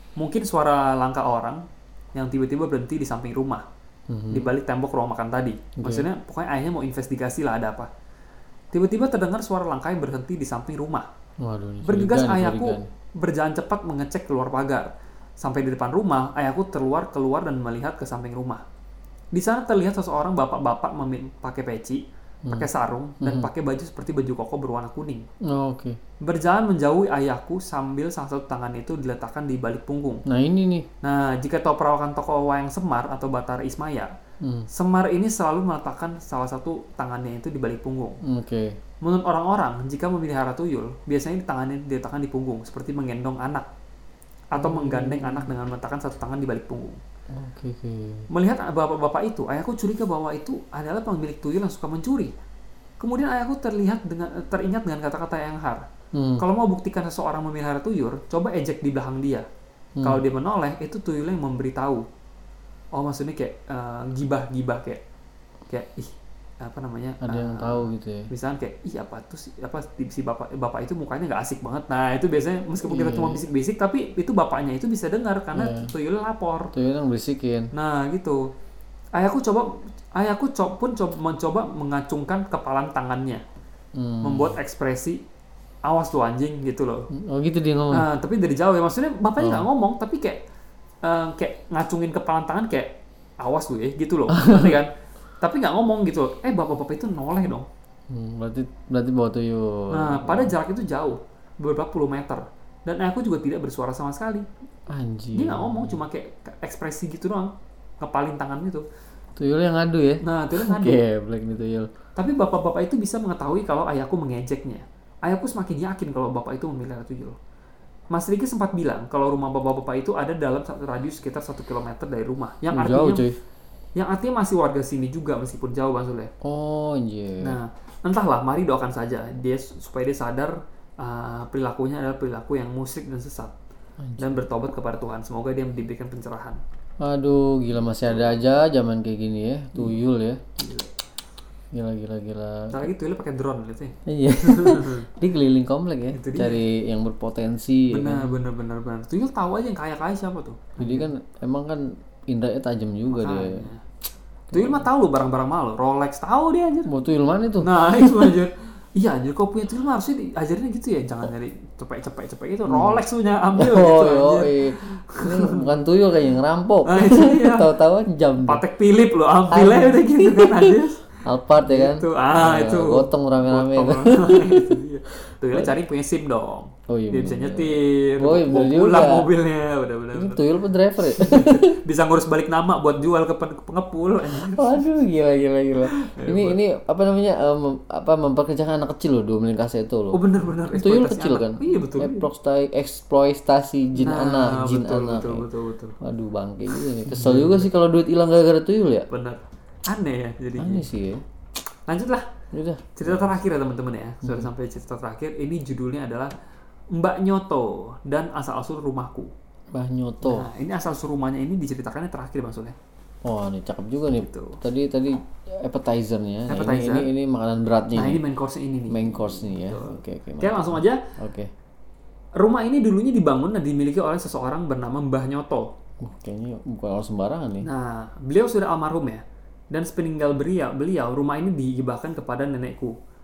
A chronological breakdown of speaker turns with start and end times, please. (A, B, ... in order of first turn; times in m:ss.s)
0:00.2-0:03.6 A
0:04.1-0:04.5 B
0:04.3-0:07.9 A
0:05.8-0:06.1 B
0:08.7-0:11.1 A
0:11.4-0:12.9 B
0:11.8-0:18.6 A
0:19.3-0:25.3 A
0:23.2-0:23.5 B
0:25.4-0:26.0 B
0:26.2-0:30.2 A
0:30.3-0:30.9 B
0:31.0-0:34.1 A
0:34.4-0:34.7 B
0:34.7-0:38.2 A
0:38.2-0:38.8 B
0:39.0-0:43.7 A
0:44.5-0:47.0 A
0:44.6-0:45.5 B
0:47.3-0:48.3 B
0:48.3-0:52.3 A
0:53.0-0:55.8 A
0:56.1-0:56.4 B
0:56.4-0:59.5 A
1:00.0-1:00.2 B
1:00.0-1:02.0 A
1:02.9-1:05.0 A
1:05.7-1:16.7 A
1:07.2-1:08.3 B
1:12.8-1:13.4 B
1:15.5-1:15.9 B
1:16.7-1:17.7 B
1:17.7-1:18.4 A
1:19.2-1:23.4 A
1:24.0-1:24.6 B
1:24.2-1:25.2 A
1:25.8-1:27.1 A
1:27.1-1:28.1 B
1:27.9-1:30.4 A
1:29.4-1:29.7 B
1:31.0-1:37.7 A
1:34.3-1:34.8 B
1:38.1-1:40.5 B
1:39.9-1:44.5 A
1:44.9-1:46.0 B
1:45.4-1:48.8 A
1:49.4-1:51.9 B
1:50.2-1:51.0 A
1:52.2-1:57.4 A
1:58.1-2:03.2 A
2:02.7-2:03.4 B
2:04.0-2:06.3 A
2:06.4-2:07.6 B
2:07.4-2:13.5 A
2:14.0-2:14.5 B
2:14.2-2:16.6 A
2:17.0-2:20.4 B
2:20.6-2:20.9 A
2:21.7-2:22.9 B
2:22.7-2:25.1 A
2:24.1-2:28.5 B
2:26.1-2:26.6 A
2:27.9-2:31.1 A
2:30.8-2:33.7 B
2:33.1-2:33.8 A
2:34.5-2:34.9 B
2:34.5-2:36.9 A
2:36.9-2:38.4 B
2:37.6-2:45.7 A
2:42.7-2:48.6 B
2:46.9-2:47.7 A
2:48.4-3:00.4 A
2:49.5-2:54.8 B
2:56.9-2:59.3 B
3:00.1-3:01.8 B
3:01.0-3:04.8 A
3:04.3-3:10.2 B
3:05.8-3:06.6 A
3:10.1-3:12.3 A
3:10.7-3:15.5 B
3:14.0-3:16.0 A
3:16.0-3:19.1 B
3:16.7-3:17.7 A
3:19.1-3:20.9 A
3:20.6-3:21.2 B
3:21.9-3:22.3 A
3:22.5-3:23.3 B
3:23.0-3:26.3 A
3:24.2-3:24.5 B
3:26.9-3:29.3 A
3:29.7-3:30.5 B
3:30.2-3:32.8 A
3:33.2-3:38.2 B
3:34.2-3:34.6 A
3:36.5-3:37.1 A
3:37.9-3:41.0 A
3:38.9-3:41.5 B
3:42.4-3:45.7 A
3:46.0-3:47.7 B
3:47.6-3:53.0 A